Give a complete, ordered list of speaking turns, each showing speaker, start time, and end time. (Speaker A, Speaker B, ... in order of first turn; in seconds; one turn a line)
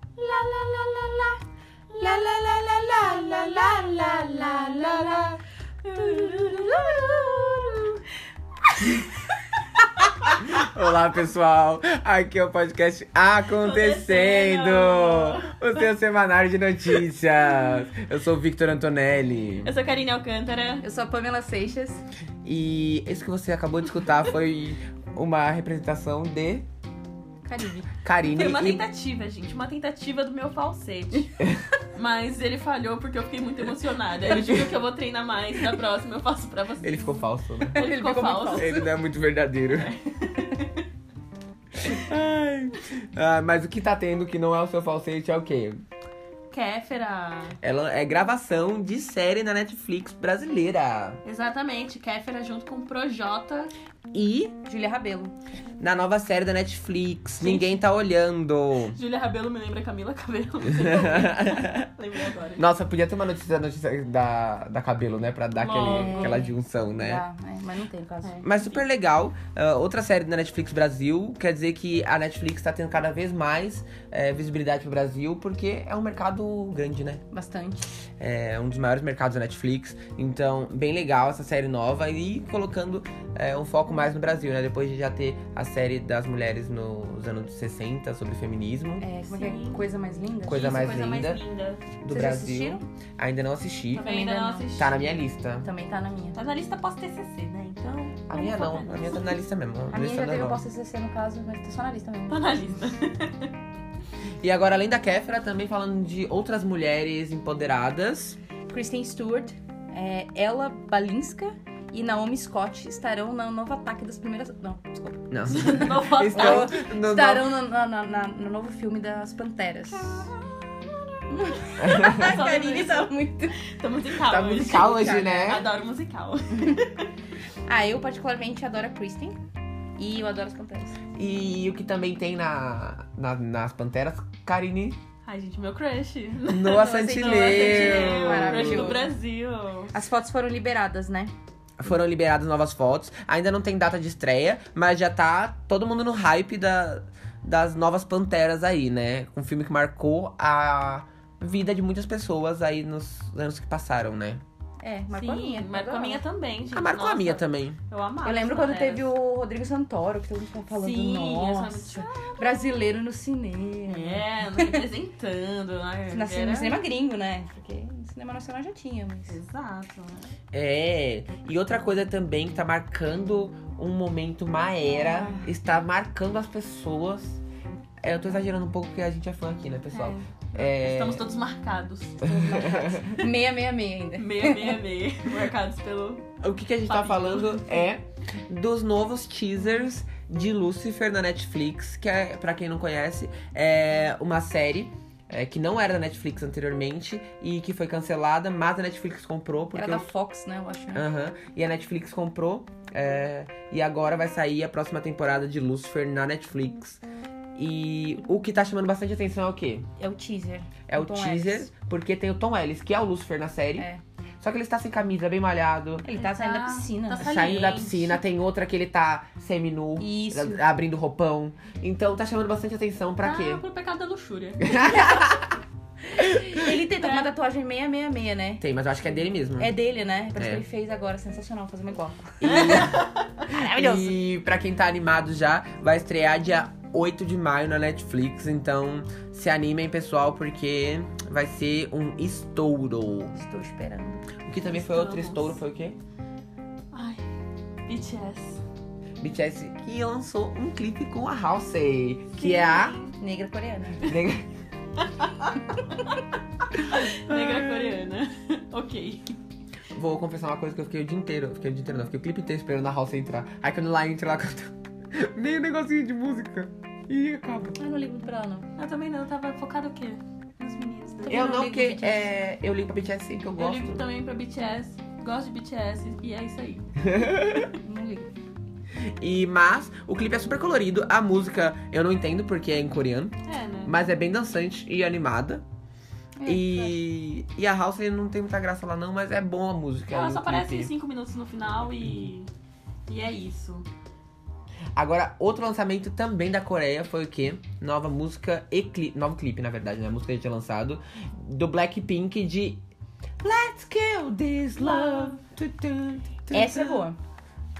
Speaker A: 0.2-1.3
Speaker B: 0.2-1.2
Speaker B: 2.0-5.4
Speaker A: 2.0-5.3
Speaker C: 5.8-8.0
Speaker A: 6.3-7.5
Speaker C: 10.1-10.3
Speaker B: 10.3-19.7
Speaker C: 13.5-15.5
Speaker C: 19.6-20.8
Speaker A: 20.8-22.0
Speaker B: 22.4-26.6
Speaker A: 27.4-27.9
Speaker B: 28.0-28.8
Speaker C: 28.2-31.4
Speaker C: 31.9-38.9
Speaker B: 34.2-34.7
Speaker B: 36.8-37.8
Speaker A: 37.7-38.9
Speaker B: 38.5-39.9
Speaker C: 39.7-40.8
Speaker B: 41.7-45.8
Speaker C: 46.5-47.6
Speaker B: 47.6-51.2
Speaker C: 51.2-53.7
Speaker B: 54.1-54.5
Speaker A: 54.6-55.4
Speaker B: 55.8-59.0
Speaker C: 57.4-57.8
Speaker C: 58.9-62.6
Speaker B: 60.7-61.9
Speaker B: 62.5-67.2
Speaker C: 65.5-66.5
Speaker A: 65.9-68.5
Speaker C: 68.2-68.8
Speaker B: 68.4-77.2
Speaker A: 77.3-77.9
Speaker B: 78.2-89.0
Speaker A: 89.0-90.7
Speaker C: 89.3-89.8
Speaker B: 90.4-91.4
Speaker C: 90.5-91.8
Speaker B: 92.0-94.2
Speaker A: 92.1-92.8
Speaker C: 93.9-95.2
Speaker A: 94.0-94.7
Speaker B: 94.7-95.7
Speaker A: 95.6-96.4
Speaker C: 96.3-99.3
Speaker B: 98.3-100.6
Speaker A: 99.9-102.6
Speaker C: 102.3-103.5
Speaker B: 104.4-108.4
Speaker A: 108.7-120.3
Speaker B: 115.3-117.5
Speaker C: 115.5-116.8
Speaker C: 120.0-120.3
Speaker A: 121.3-123.5
Speaker C: 121.6-127.1
Speaker B: 121.8-122.3
Speaker B: 124.2-125.6
Speaker A: 124.8-125.4
Speaker A: 127.7-129.4
Speaker A: 130.0-131.0
Speaker B: 131.1-135.0
Speaker C: 135.2-139.9
Speaker B: 136.5-139.1
Speaker A: 136.7-139.1
Speaker A: 139.9-141.3
Speaker B: 141.8-154.4
Speaker A: 154.8-156.2
Speaker C: 155.1-159.1
Speaker B: 156.7-157.8
Speaker A: 158.2-164.8
Speaker C: 160.7-162.8
Speaker C: 163.8-166.8
Speaker A: 166.1-169.4
Speaker C: 169.3-170.3
Speaker B: 170.5-177.4
Speaker A: 174.8-175.5
Speaker B: 178.0-181.2
Speaker C: 179.9-183.0
Speaker B: 182.2-183.1
Speaker A: 182.2-184.8
Speaker C: 184.2-186.3
Speaker B: 186.4-200.1
Speaker C: 186.9-187.8
Speaker A: 199.7-201.1
Speaker B: 200.9-207.0
Speaker B: 207.6-209.9
Speaker A: 210.0-211.7
Speaker B: 210.9-213.9
Speaker A: 213.8-214.0
Speaker B: 214.4-216.0
Speaker A: 216.0-217.3
Speaker C: 216.1-218.2
Speaker B: 217.2-223.6
Speaker A: 220.0-220.6
Speaker C: 223.2-225.2
Speaker B: 224.6-225.5
Speaker B: 226.2-226.6
Speaker A: 226.2-228.6
Speaker C: 227.0-227.3
Speaker B: 228.6-229.7
Speaker A: 229.6-234.1
Speaker B: 230.3-230.6
Speaker B: 232.4-243.3
Speaker C: 232.5-233.3
Speaker A: 243.3-244.3
Speaker B: 244.4-246.0
Speaker C: 244.7-245.6
Speaker C: 246.9-247.2
Speaker C: 247.9-248.6
Speaker B: 249.2-253.0
Speaker C: 252.3-253.2
Speaker A: 253.2-254.1
Speaker B: 254.0-254.4
Speaker C: 255.0-256.2
Speaker C: 256.7-259.4
Speaker B: 256.8-257.9
Speaker B: 259.9-267.8
Speaker A: 267.8-268.7
Speaker C: 268.8-271.8
Speaker A: 271.2-272.3
Speaker B: 271.3-274.0
Speaker C: 273.6-276.9
Speaker B: 277.0-277.7
Speaker A: 277.7-278.3
Speaker B: 279.0-285.6
Speaker C: 283.5-283.9
Speaker A: 286.4-286.9
Speaker B: 286.4-290.9
Speaker C: 290.1-292.5
Speaker C: 293.1-293.9
Speaker B: 294.9-302.8
Speaker B: 303.4-307.0
Speaker C: 304.8-305.4
Speaker A: 306.5-307.2